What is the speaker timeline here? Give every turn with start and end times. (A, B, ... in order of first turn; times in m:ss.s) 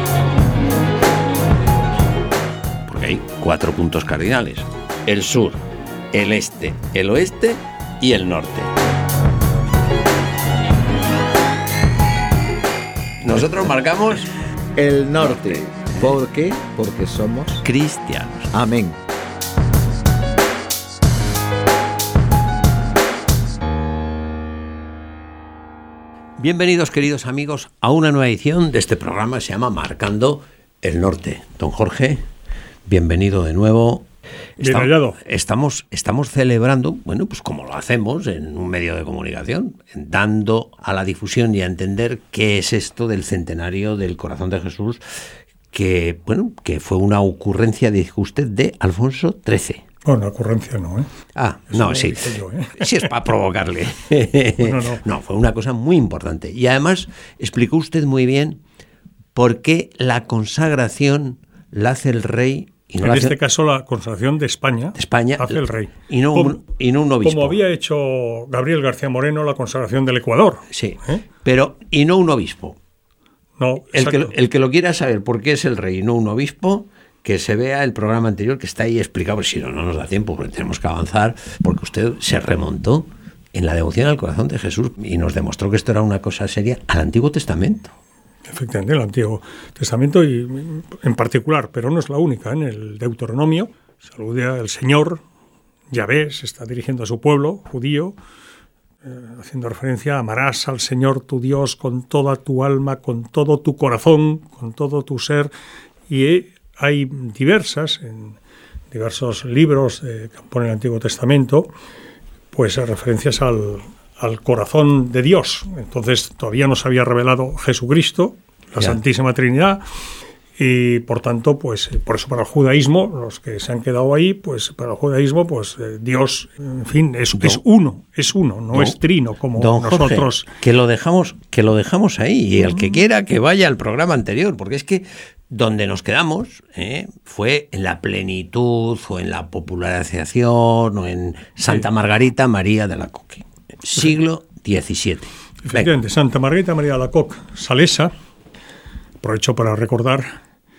0:02.8-0:08.7 A
0:13.2-0:14.3 A
0:14.8-0:17.6 B
0:15.3-0:15.6 A
0:17.6-0:18.5 A
0:18.5-0:19.0 B
0:26.4-0:32.2 A
0:32.8-0:34.1 A
0:34.6-0:35.2 C
0:34.6-0:49.8 A
0:50.0-0:51.1 C
0:51.3-0:58.6 A
0:51.7-0:53.1 C
0:54.6-0:55.0 C
0:59.3-1:03.4 A
1:03.0-1:06.6 C
1:04.9-1:07.6 A
1:07.2-1:11.2 C
1:10.7-1:12.8 A
1:13.6-1:14.3 C
1:13.9-1:27.9 A
1:28.5-1:35.2 C
1:35.9-1:38.2 C
1:39.0-1:45.5 C
1:46.1-1:48.4 C
1:48.9-1:51.7 C
1:52.5-1:59.8 C
2:00.6-2:10.5 C
2:07.4-2:07.6 A
2:09.5-2:25.9 A
2:25.6-2:28.1 C
2:29.2-2:30.4 C